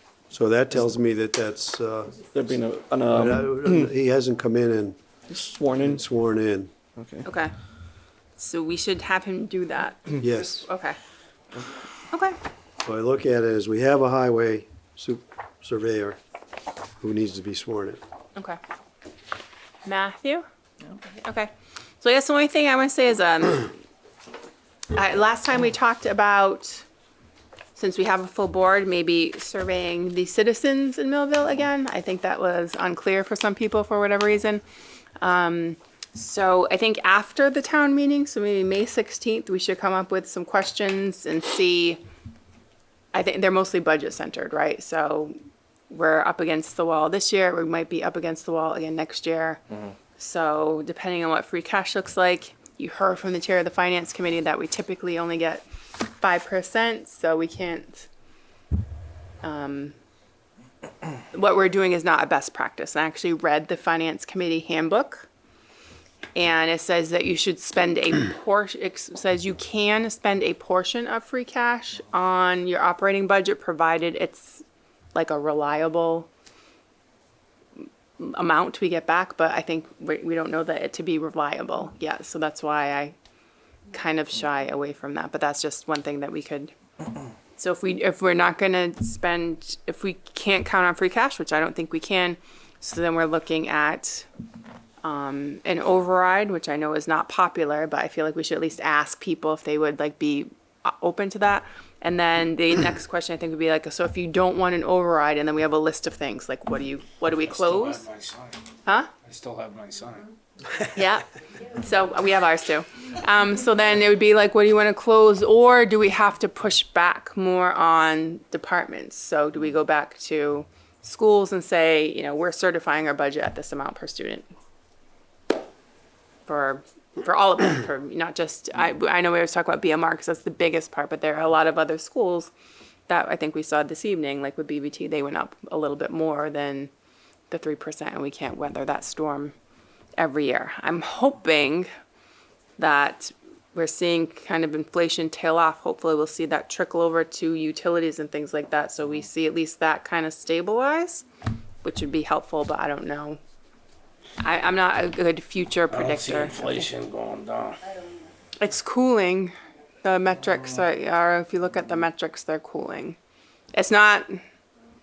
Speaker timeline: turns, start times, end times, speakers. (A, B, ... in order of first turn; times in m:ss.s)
0:00.3-0:02.1 A
0:02.3-0:03.9 B
0:03.1-0:05.0 A
0:05.3-0:06.0 B
0:05.8-0:06.7 A
0:07.0-0:07.3 B
0:07.2-0:07.5 C
0:08.4-0:11.0 C
0:10.2-0:10.7 A
0:12.1-0:12.4 C
0:12.8-0:16.2 A
0:17.0-0:18.0 A
0:19.8-0:20.4 C
0:21.0-0:23.7 C
0:24.9-0:26.8 C
0:27.8-0:34.6 C
0:35.2-0:42.0 C
0:43.1-0:45.3 C
0:45.9-0:49.6 C
0:50.2-0:58.1 C
0:59.4-0:59.9 C
1:01.3-1:05.3 C
1:06.3-1:14.6 C
1:15.1-1:16.3 C
1:18.2-1:23.1 C
1:23.9-1:26.7 C
1:27.6-1:34.2 C
1:35.0-1:48.0 C
1:47.4-1:48.6 D
1:48.8-1:49.1 C
1:49.2-1:50.3 D
1:50.9-2:04.4 C
2:06.5-2:12.5 C
2:13.1-2:16.9 C
2:17.5-2:19.5 C
2:20.2-2:21.9 C
2:22.8-2:31.2 C
2:31.8-2:33.4 C
2:34.4-2:36.8 C
2:35.9-2:37.8 D
2:38.6-2:43.2 C
2:43.7-2:44.4 C